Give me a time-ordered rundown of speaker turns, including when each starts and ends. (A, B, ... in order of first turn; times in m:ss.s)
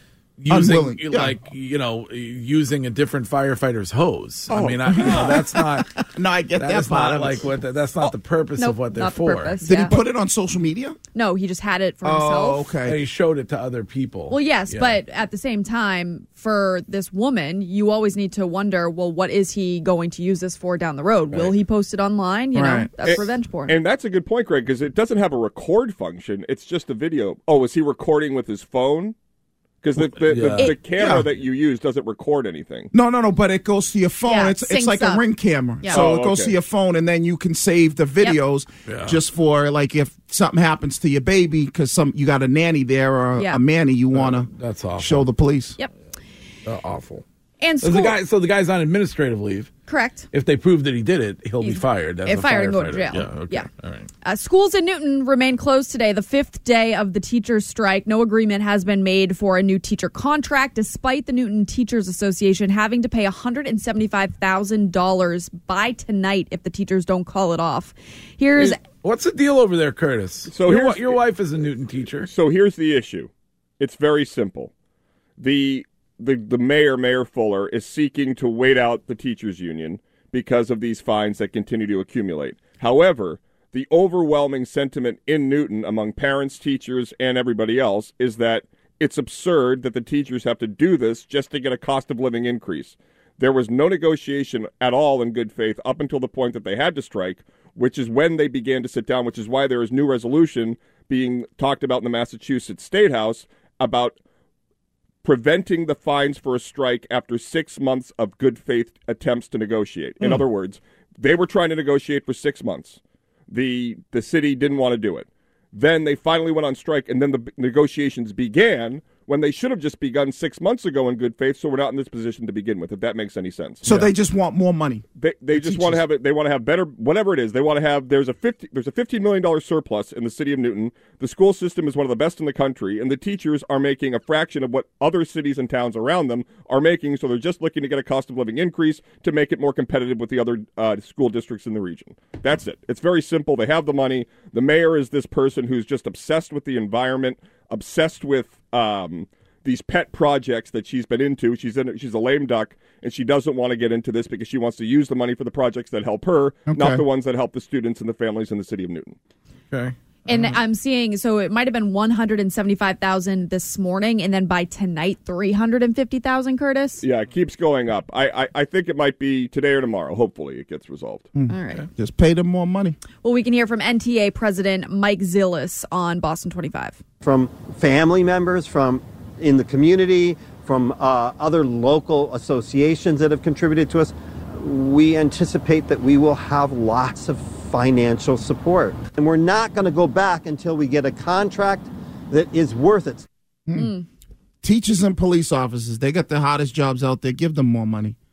0:00.4-0:05.9 A
0:00.5-0:01.4 B
0:04.5-0:07.4 B
0:06.6-0:09.6 A
0:08.6-0:10.0 C
0:09.6-0:11.0 B
0:11.1-0:12.7 C
0:12.0-0:13.0 B
0:12.8-0:15.0 A
0:14.3-0:23.8 C
0:22.5-0:23.3 B
0:23.0-0:29.1 D
0:29.8-0:32.9 D
0:30.0-0:30.7 A
0:31.0-0:31.3 B
0:32.9-0:45.8 B
0:34.2-0:35.2 C
0:35.9-0:36.5 D
0:38.9-0:39.2 A
0:43.4-0:43.6 C
0:44.1-0:45.3 A
0:46.6-0:47.2 A
0:47.6-0:48.2 C
0:47.8-0:49.7 A
0:49.9-0:50.3 C
0:50.3-0:54.1 A
0:51.6-0:53.7 C
0:54.2-1:08.8 C
1:09.0-1:12.3 A
1:10.5-1:11.2 D
1:12.2-1:14.7 D
1:15.4-1:44.2 D
1:45.2-2:03.8 D
2:03.8-2:06.0 B
2:05.2-2:39.2 D
2:36.7-2:37.0 B
2:39.7-2:40.5 A
2:40.3-2:47.0 C
2:47.0-2:51.3 D
2:51.3-2:53.0 B
2:51.5-2:51.8 C
2:53.2-2:57.0 C
2:57.2-3:13.2 E
3:13.7-3:14.0 B
3:13.7-3:14.0 C
3:14.6-3:18.1 B